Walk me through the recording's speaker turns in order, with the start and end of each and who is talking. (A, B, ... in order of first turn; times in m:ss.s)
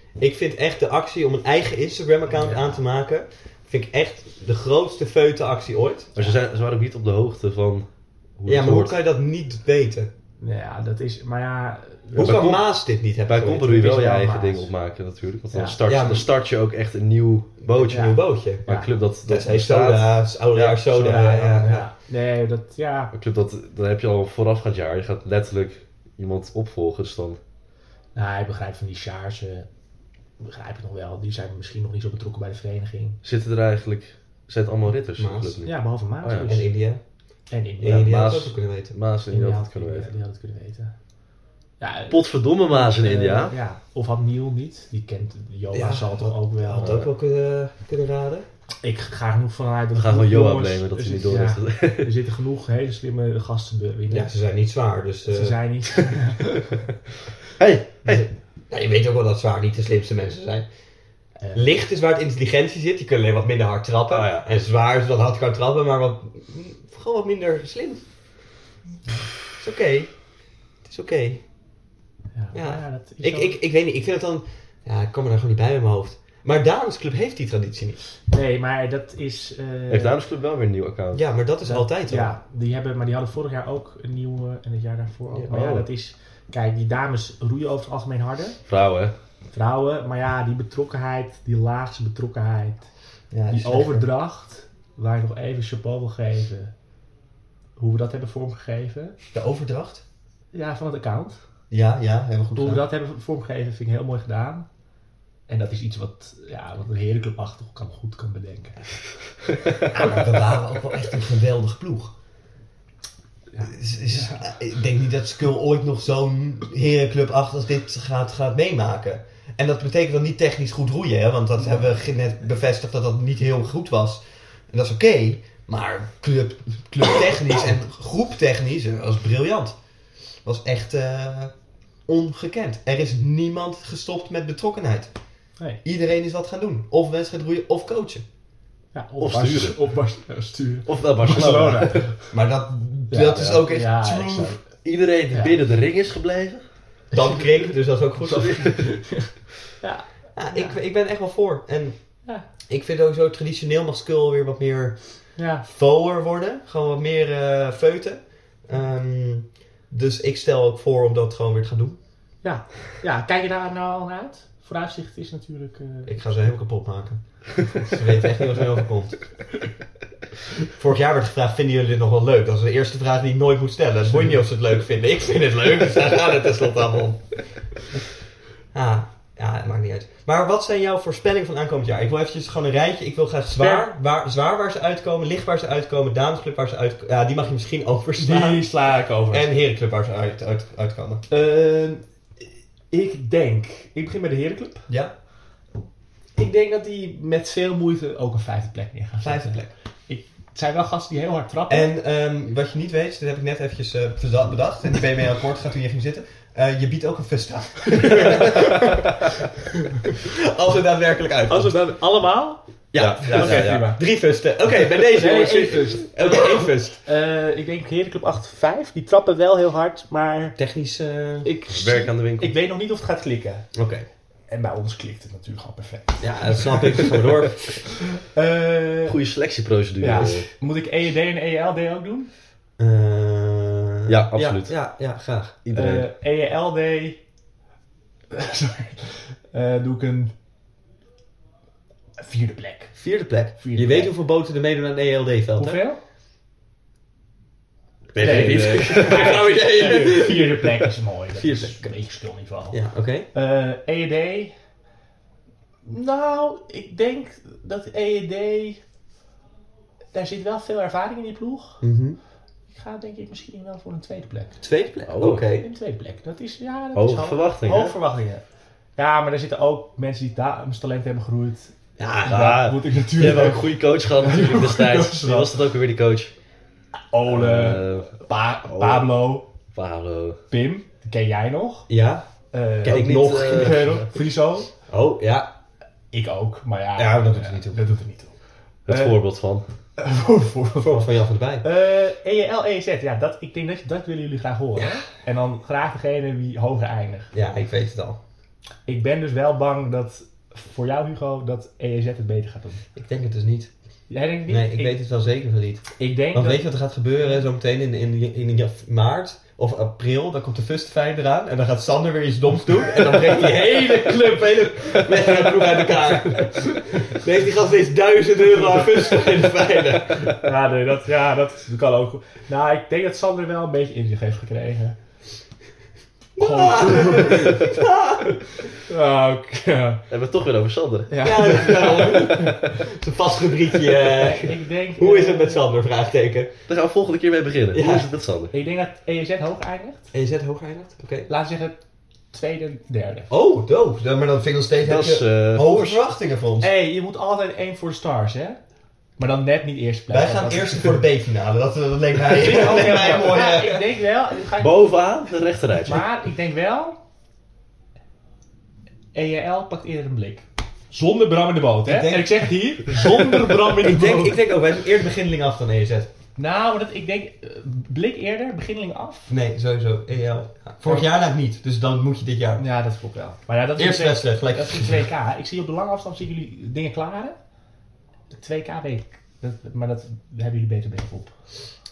0:00.2-0:06.2 A
0:02.3-0:02.8 B
0:06.2-0:09.0 C
0:08.5-0:10.1 A
0:10.4-0:12.5 B
0:12.1-0:18.1 C
0:12.2-0:13.8 A
0:13.6-0:14.7 B
0:15.5-0:15.8 B
0:15.9-0:16.3 A
0:17.6-0:18.7 A
0:17.9-0:18.9 B
0:18.7-0:20.9 C
0:19.3-0:21.9 A
0:20.9-0:23.1 B
0:23.1-0:27.4 C
0:28.2-0:29.7 B
0:30.4-0:33.2 B
0:33.2-0:36.6 C
0:35.2-0:35.6 A
0:35.6-0:36.7 B
0:36.5-0:37.0 A
0:37.5-0:38.2 B
0:37.8-0:39.0 A
0:37.9-0:40.1 C
0:39.3-0:41.0 B
0:41.8-0:47.0 B
0:42.1-0:43.6 C
0:45.7-0:48.5 A
0:46.8-0:47.1 C
0:48.8-0:54.3 B
0:50.0-0:52.1 C
0:54.1-0:55.6 A
0:55.3-0:56.8 B
0:57.6-0:58.3 C
0:58.1-1:00.7 A
1:01.4-1:01.7 B
1:01.5-1:08.0 A
1:04.1-1:04.5 C
1:09.5-1:11.5 A
1:12.4-1:13.6 B
1:12.5-1:18.0 A
1:18.3-1:20.2 B
1:19.9-1:21.2 C
1:21.1-1:22.3 A
1:21.6-1:28.6 B
1:25.5-1:25.9 C
1:28.7-1:29.1 C
1:29.5-1:32.9 B
1:33.3-1:34.1 A
1:33.5-1:36.7 B
1:37.8-1:39.2 B
1:39.3-1:40.0 A
1:40.5-1:41.4 B
1:41.7-1:42.8 A
1:42.6-1:44.7 B
1:45.5-1:49.0 B
1:49.9-1:52.2 A
1:53.5-1:54.4 B
1:53.6-2:09.8 A
2:10.4-2:15.1 A
2:15.8-2:18.2 A
2:18.9-2:22.3 B
2:19.2-2:19.8 C
2:20.9-2:22.1 C
2:22.3-2:24.6 A
2:23.1-2:24.6 B
2:24.8-2:26.6 C
2:27.1-2:27.5 B
2:27.1-2:28.8 A
2:28.2-2:30.8 B
2:28.6-2:28.9 C
2:30.4-2:42.0 A
2:35.4-2:35.6 B
2:42.4-2:46.5 B
2:46.1-2:49.3 A
2:50.7-2:57.4 A
2:58.7-3:08.7 A
3:03.6-3:03.9 B
3:08.2-3:09.5 B
3:09.3-3:11.2 A
3:11.3-3:12.0 B
3:12.9-3:14.9 B
3:14.9-3:15.1 A
3:16.4-3:21.9 B
3:19.2-3:19.7 A
3:21.7-3:29.0 A
3:28.0-3:29.0 B
3:30.1-3:31.8 A
3:31.5-3:34.0 B
3:32.9-3:37.0 A
3:33.0-3:33.9 C
3:35.0-3:40.6 B
3:40.6-3:41.5 A
3:41.4-3:43.7 B
3:41.7-3:42.6 C
3:43.7-3:44.1 A
3:44.5-3:47.2 B
3:46.2-3:47.9 A
3:48.0-3:49.2 B
3:49.1-3:50.5 C
3:50.0-3:52.3 B
3:52.8-3:55.6 A
3:54.1-3:54.7 C
3:55.6-3:56.1 C
3:55.8-3:57.2 B
3:58.3-4:00.3 B
4:02.2-4:04.1 B
4:03.0-4:05.8 A
4:05.6-4:06.0 B
4:08.1-4:10.9 A
4:08.2-4:14.6 B
4:08.2-4:09.4 C
4:11.4-4:11.9 A
4:12.7-4:13.3 A
4:15.9-4:18.8 B
4:20.1-4:21.8 B
4:21.8-4:22.2 A
4:22.7-4:24.6 B
4:24.6-4:25.7 A
4:25.1-4:25.4 C
4:25.6-4:28.4 B
4:27.0-4:27.9 C
4:29.0-4:35.5 B
4:32.0-4:32.7 A
4:32.3-4:36.3 C
4:37.1-4:39.5 B
4:37.3-4:40.4 C
4:40.5-4:41.9 B
4:41.9-4:42.3 A
4:42.5-4:44.7 B
4:42.8-4:43.8 A
4:42.8-4:44.1 C
4:44.9-4:45.5 A
4:46.1-4:48.4 B
4:47.0-4:47.8 A
4:48.9-4:49.6 C
4:48.9-4:49.2 B
4:50.0-4:51.1 B
4:50.8-4:51.6 A
4:51.6-4:57.3 B
4:57.3-4:58.2 A
4:58.9-5:02.8 B
5:03.0-5:03.7 A
5:04.1-5:05.0 B
5:04.5-5:20.3 A
5:06.0-5:06.7 B
5:13.4-5:15.4 B
5:18.5-5:19.2 B
5:20.4-5:25.0 B
5:26.4-5:28.4 A
5:26.4-5:27.7 B
5:28.7-5:30.0 B
5:30.1-5:32.5 C
5:31.1-5:32.8 B
5:31.2-5:36.5 A
5:34.0-5:35.6 B
5:36.7-5:38.5 C
5:37.7-5:38.1 A
5:38.5-5:40.1 B
5:40.1-5:41.3 A
5:41.3-5:43.3 B
5:43.3-5:46.7 A
5:44.8-5:46.0 C
5:46.6-5:48.6 B
5:49.2-5:51.0 B
5:50.1-5:53.8 A
5:52.3-5:54.8 B
5:54.6-5:56.1 C
5:55.8-5:57.0 B
5:59.1-6:04.4 B
6:01.8-6:03.3 A
6:03.8-6:06.1 A
6:06.4-6:09.3 B
6:09.3-6:12.6 A
6:12.6-6:17.4 B
6:13.8-6:15.0 A
6:18.3-6:21.4 B